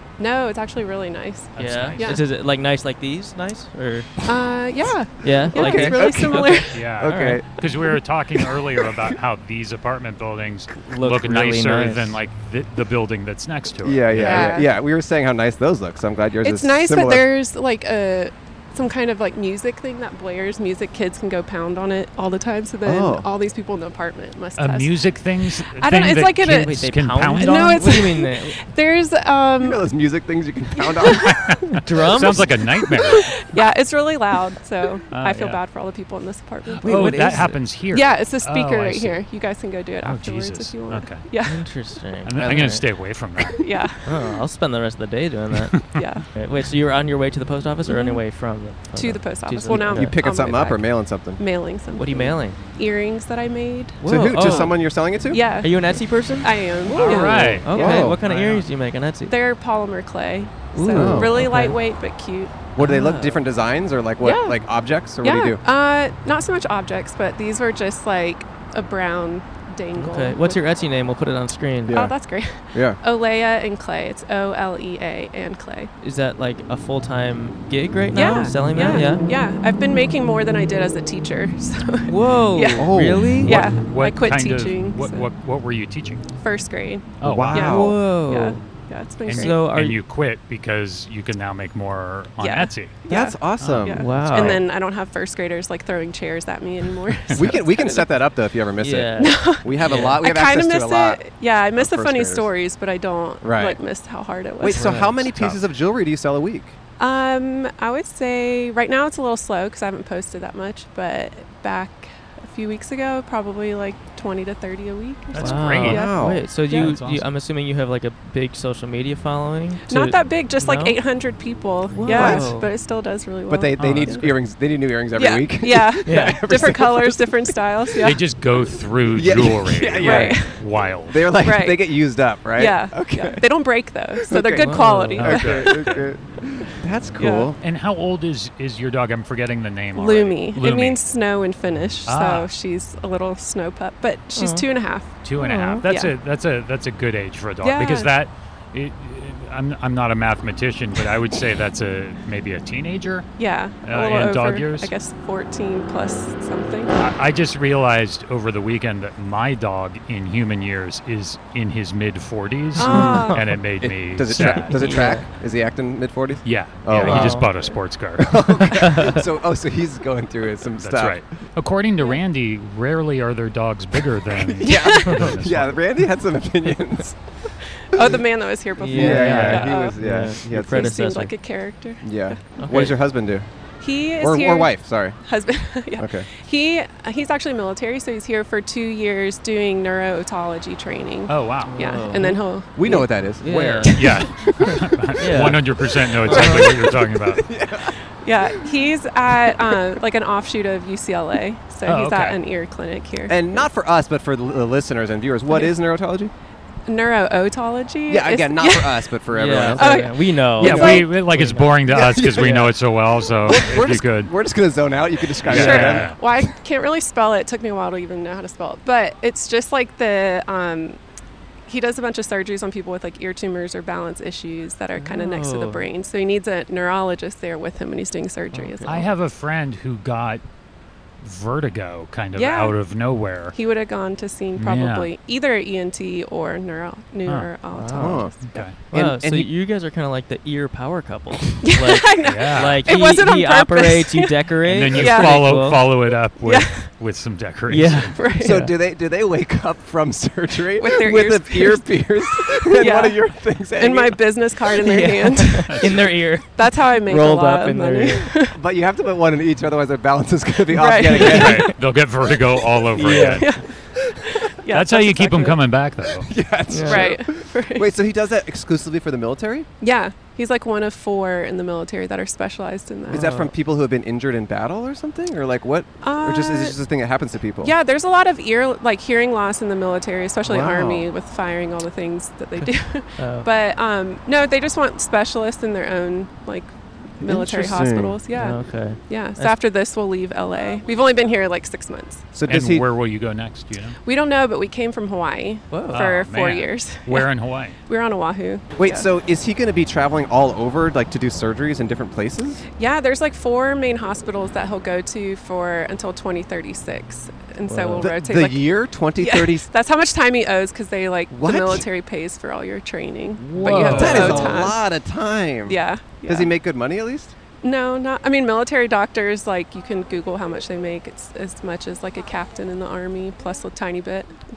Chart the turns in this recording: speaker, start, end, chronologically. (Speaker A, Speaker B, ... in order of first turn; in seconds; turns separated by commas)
Speaker A: 0.2-2.2, Speaker B: 1.6-2.2, Speaker C: 1.6-4.1, Speaker A: 4.2-6.8, Speaker C: 5.2-6.2, Speaker D: 5.5-7.5, Speaker B: 6.7-14.6, Speaker C: 7.0-7.4, Speaker C: 10.8-12.2, Speaker D: 13.8-17.3, Speaker A: 14.1-14.7, Speaker A: 16.4-26.8, Speaker D: 22.8-23.3, Speaker B: 24.6-27.9, Speaker C: 26.5-28.6, Speaker A: 27.4-29.8, Speaker D: 29.6-31.3, Speaker A: 30.7-31.6, Speaker B: 31.1-33.4, Speaker C: 31.8-32.5, Speaker A: 32.8-41.7, Speaker B: 35.1-35.6, Speaker B: 36.8-39.2, Speaker D: 36.8-37.4, Speaker C: 36.8-37.6, Speaker B: 40.0-41.3, Speaker C: 41.4-42.9, Speaker B: 42.2-43.6, Speaker A: 43.4-44.2, Speaker C: 44.0-45.8, Speaker A: 45.9-46.3, Speaker C: 46.3-50.7, Speaker A: 47.9-48.2, Speaker A: 48.9-50.8, Speaker D: 49.7-51.4, Speaker A: 51.4-58.0, Speaker C: 51.9-52.6, Speaker C: 54.0-54.8, Speaker D: 54.0-55.4, Speaker C: 55.6-59.3, Speaker B: 56.9-58.7, Speaker D: 57.6-58.2, Speaker A: 59.3-62.6, Speaker C: 60.7-61.8, Speaker D: 60.9-61.5, Speaker D: 62.7-65.6, Speaker C: 62.8-63.4, Speaker A: 64.2-64.6, Speaker A: 65.2-70.8, Speaker C: 69.9-72.0, Speaker D: 71.9-72.2, Speaker A: 71.9-75.9, Speaker D: 72.7-73.0, Speaker C: 76.0-79.2, Speaker A: 78.1-85.3, Speaker C: 82.1-83.5, Speaker D: 82.8-83.5, Speaker B: 83.4-86.2, Speaker A: 86.4-89.7, Speaker B: 87.2-87.8, Speaker D: 87.2-88.2, Speaker C: 87.6-88.6, Speaker B: 89.2-93.0, Speaker C: 89.3-90.0, Speaker A: 92.4-98.1, Speaker D: 93.1-94.5, Speaker B: 93.6-94.3, Speaker C: 93.9-94.6, Speaker D: 97.3-102.5, Speaker C: 98.8-100.2, Speaker A: 99.2-105.0, Speaker D: 103.4-103.8, Speaker D: 104.6-106.8, Speaker C: 104.7-105.2, Speaker B: 105.2-105.6, Speaker A: 107.0-117.0, Speaker B: 115.3-116.0, Speaker C: 115.4-121.0, Speaker D: 115.9-116.5, Speaker B: 116.7-117.3, Speaker A: 119.9-124.3, Speaker C: 122.0-122.7, Speaker D: 122.1-122.5, Speaker D: 123.5-127.2, Speaker A: 125.1-128.2, Speaker C: 126.0-126.4, Speaker B: 128.0-131.3, Speaker D: 129.1-130.5, Speaker A: 130.0-130.6, Speaker D: 131.1-133.5, Speaker A: 131.4-131.9, Speaker A: 132.5-135.9, Speaker D: 134.2-137.6, Speaker C: 134.5-135.3, Speaker B: 135.2-136.0, Speaker A: 137.2-137.6, Speaker B: 137.6-141.0, Speaker A: 139.9-146.1, Speaker B: 142.1-142.5, Speaker C: 144.4-144.7, Speaker B: 145.2-153.3, Speaker A: 147.6-148.1, Speaker A: 153.4-156.9, Speaker B: 153.8-154.9, Speaker B: 156.9-164.8, Speaker A: 162.8-163.6, Speaker C: 162.9-163.4, Speaker D: 162.9-163.2, Speaker D: 163.8-167.6, Speaker C: 164.4-165.3, Speaker B: 166.4-168.4, Speaker C: 167.0-167.5, Speaker D: 168.2-171.2, Speaker B: 170.8-175.8, Speaker D: 174.4-177.2, Speaker A: 174.6-175.1, Speaker A: 177.9-180.0, Speaker D: 177.9-178.2, Speaker C: 178.8-181.3, Speaker D: 178.9-180.9, Speaker B: 179.2-179.7, Speaker A: 180.6-182.4, Speaker D: 182.0-183.4, Speaker C: 182.6-183.0, Speaker A: 183.8-192.8, Speaker D: 184.2-185.2, Speaker D: 186.0-186.3, Speaker B: 191.3-191.7, Speaker C: 191.7-194.1, Speaker D: 192.7-194.4, Speaker B: 193.9-197.5, Speaker C: 195.2-195.7, Speaker D: 196.2-197.9, Speaker C: 196.3-196.7, Speaker A: 198.2-203.7, Speaker B: 201.8-202.4, Speaker D: 203.3-206.3, Speaker A: 205.5-205.7, Speaker A: 206.9-209.1, Speaker D: 208.1-210.1, Speaker C: 209.3-212.7, Speaker A: 209.8-211.1, Speaker B: 210.6-214.3, Speaker D: 211.9-212.7, Speaker D: 213.4-216.1, Speaker B: 215.4-216.2, Speaker A: 215.5-221.0, Speaker A: 221.7-229.1, Speaker C: 224.9-225.9, Speaker C: 228.5-229.0, Speaker B: 228.8-230.4, Speaker B: 231.2-233.6, Speaker A: 232.3-232.8, Speaker A: 233.5-238.7, Speaker B: 234.6-235.1, Speaker C: 237.7-238.2, Speaker D: 237.9-238.3, Speaker B: 238.5-238.8, Speaker C: 238.9-246.0, Speaker D: 238.9-239.5, Speaker A: 241.6-245.5, Speaker B: 242.2-242.9, Speaker B: 244.6-248.2, Speaker A: 246.4-246.9, Speaker C: 247.7-248.7, Speaker A: 248.1-248.7, Speaker D: 248.4-254.2, Speaker A: 250.8-255.9, Speaker C: 254.8-258.3, Speaker A: 256.6-258.6, Speaker D: 258.5-261.7, Speaker A: 260.7-261.7, Speaker B: 261.2-263.5, Speaker C: 262.9-263.5, Speaker A: 263.4-263.7, Speaker A: 264.3-265.7, Speaker B: 264.7-266.3, Speaker D: 266.2-269.7, Speaker C: 266.7-267.1, Speaker A: 266.8-267.9, Speaker A: 269.8-273.3, Speaker D: 273.1-277.7, Speaker C: 273.1-273.5, Speaker A: 276.0-276.8, Speaker A: 277.6-292.3, Speaker D: 280.4-281.1, Speaker C: 282.6-283.5, Speaker D: 287.2-288.2, Speaker C: 288.3-289.6, Speaker D: 292.3-292.9, Speaker B: 292.5-294.0, Speaker A: 294.0-297.3, Speaker C: 295.7-296.0, Speaker B: 295.9-297.8, Speaker A: 297.9-299.1, Speaker D: 298.8-302.6, Speaker A: 302.8-314.9, Speaker C: 307.6-308.1, Speaker D: 308.0-309.7, Speaker D: 311.3-311.9, Speaker B: 313.4-314.6, Speaker D: 313.9-317.3, Speaker A: 315.6-316.5, Speaker A: 317.6-324.3